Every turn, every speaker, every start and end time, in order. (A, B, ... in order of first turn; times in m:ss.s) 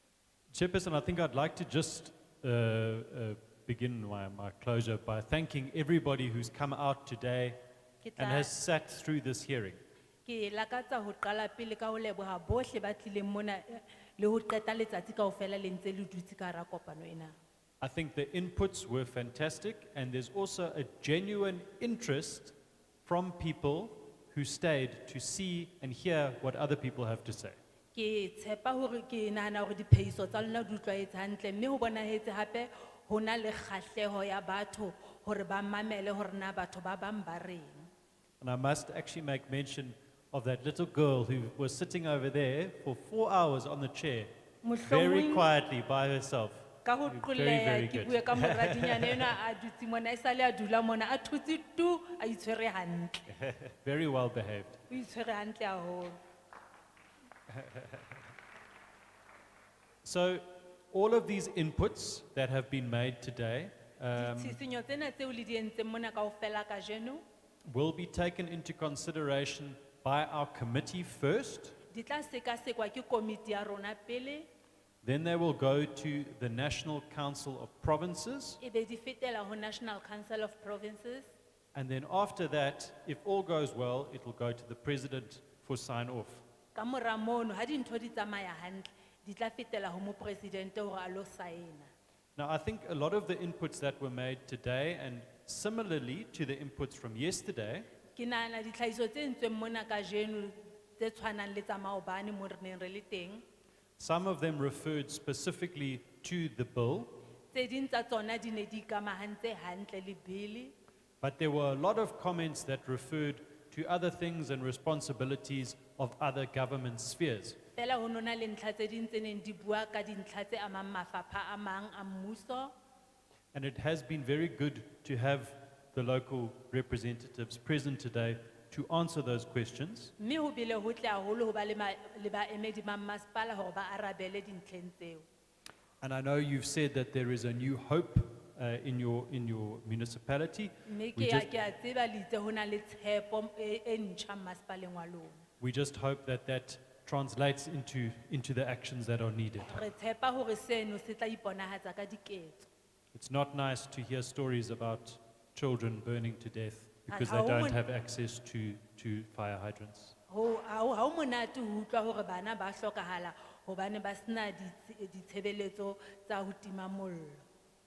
0:00.5-0:07.6 A
0:08.0-0:08.5 B
0:08.2-0:09.8 A
0:10.2-0:17.4 B
0:17.8-0:22.5 A
0:23.0-0:27.6 A
0:28.0-0:37.9 B
0:38.4-0:44.3 A
0:44.6-0:45.5 B
0:44.8-0:49.4 A
0:46.8-0:53.2 B
0:53.3-0:54.8 A
0:54.9-0:56.2 B
0:57.5-0:58.0 A
1:00.0-1:04.6 A
1:04.2-1:07.2 B
1:07.7-1:11.8 A
1:11.9-1:14.5 B
1:15.0-1:18.6 A
1:18.6-1:21.3 B
1:21.7-1:26.4 A
1:26.8-1:31.9 B
1:32.4-1:37.9 A
1:38.2-1:43.4 B
1:44.0-1:47.1 A
1:47.5-1:50.8 B
1:51.2-1:57.6 A
1:57.8-2:02.7 B
2:03.5-2:10.1 A
2:10.2-2:15.2 B
2:16.0-2:21.5 A
2:20.9-2:25.4 B
2:25.6-2:29.8 A
2:29.7-2:32.7 B
2:33.1-2:40.2 A
2:37.1-2:37.8 B
2:40.3-2:47.4 B